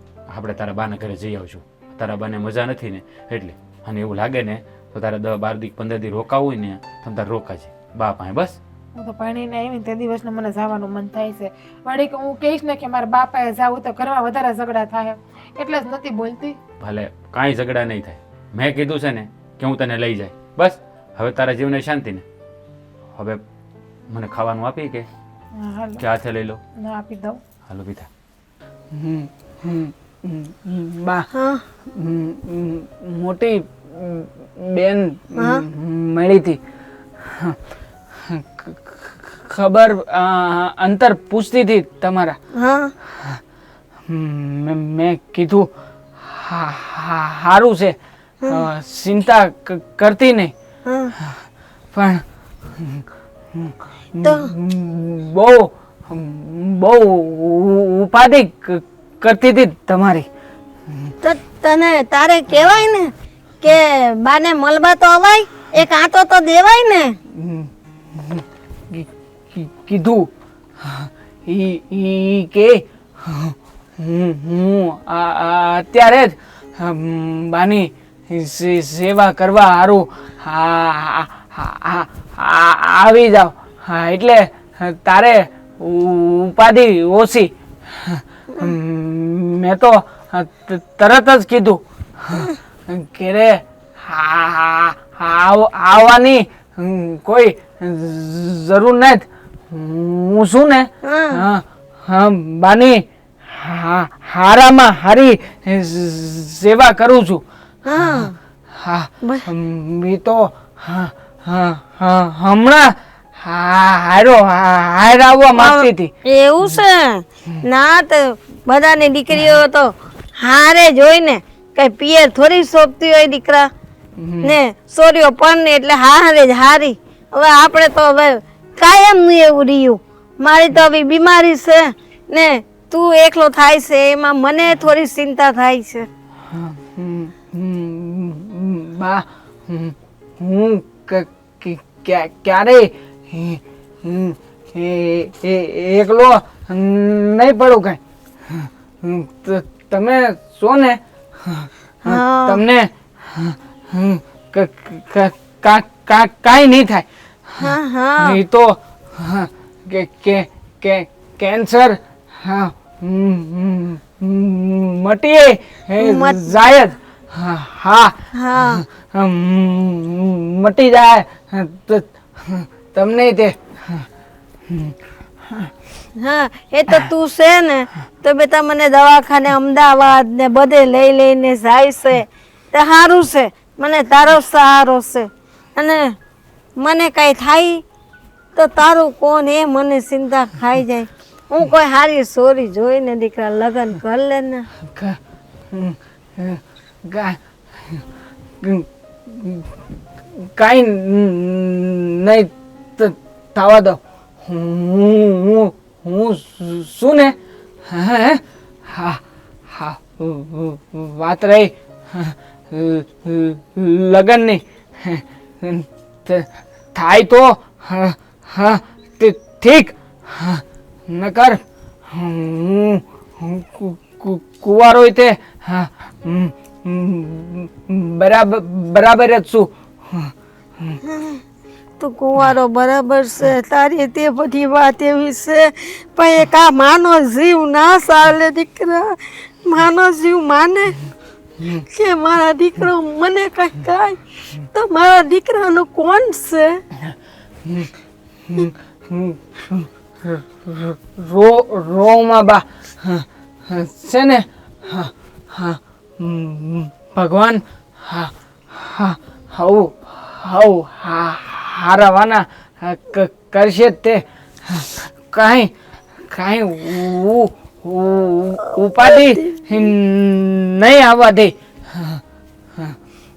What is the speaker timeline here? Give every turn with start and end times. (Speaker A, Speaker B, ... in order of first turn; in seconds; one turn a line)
Speaker A: 0.3-8.6
Speaker B: 8.9-16.6
Speaker A: 16.8-22.2
Speaker A: 23.1-23.4
Speaker A: 24.1-25.1
Speaker B: 25.5-26.0
Speaker A: 26.0-26.6
Speaker B: 26.8-27.4
Speaker A: 27.7-28.1
Speaker C: 28.9-31.3
Speaker D: 31.3-31.6
Speaker C: 31.9-36.6
Speaker D: 35.4-35.6
Speaker C: 37.2-37.6
Speaker C: 38.2-42.4
Speaker D: 42.5-42.9
Speaker C: 43.1-43.4
Speaker C: 44.1-48.0
Speaker C: 48.5-50.5
Speaker D: 50.8-51.1
Speaker C: 51.9-52.2
Speaker C: 52.8-60.3
Speaker D: 54.2-54.5
Speaker D: 61.2-67.2
Speaker C: 67.3-70.3
Speaker C: 70.8-107.4
Speaker D: 101.0-101.4
Speaker D: 107.8-108.4
Speaker C: 108.7-116.1
Speaker D: 115.5-123.7
Speaker C: 124.2-124.5
Speaker D: 124.4-136.1
Speaker C: 136.5-174.1
Speaker D: 152.1-152.6
Speaker D: 157.6-158.4
Speaker D: 166.0-166.5
Speaker D: 168.3-168.8
Speaker C: 174.7-174.9
Speaker D: 176.2-186.2
Speaker D: 186.8-187.8
Speaker D: 188.5-194.7
Speaker C: 194.9-195.2
Speaker C: 195.7-198.0
Speaker C: 198.6-199.7
Speaker C: 200.3-231.0
Speaker D: 231.1-231.4
Speaker D: 232.0-241.0
Speaker D: 241.9-246.8
Speaker C: 247.6-247.9
Speaker C: 248.5-265.7
Speaker C: 266.3-272.2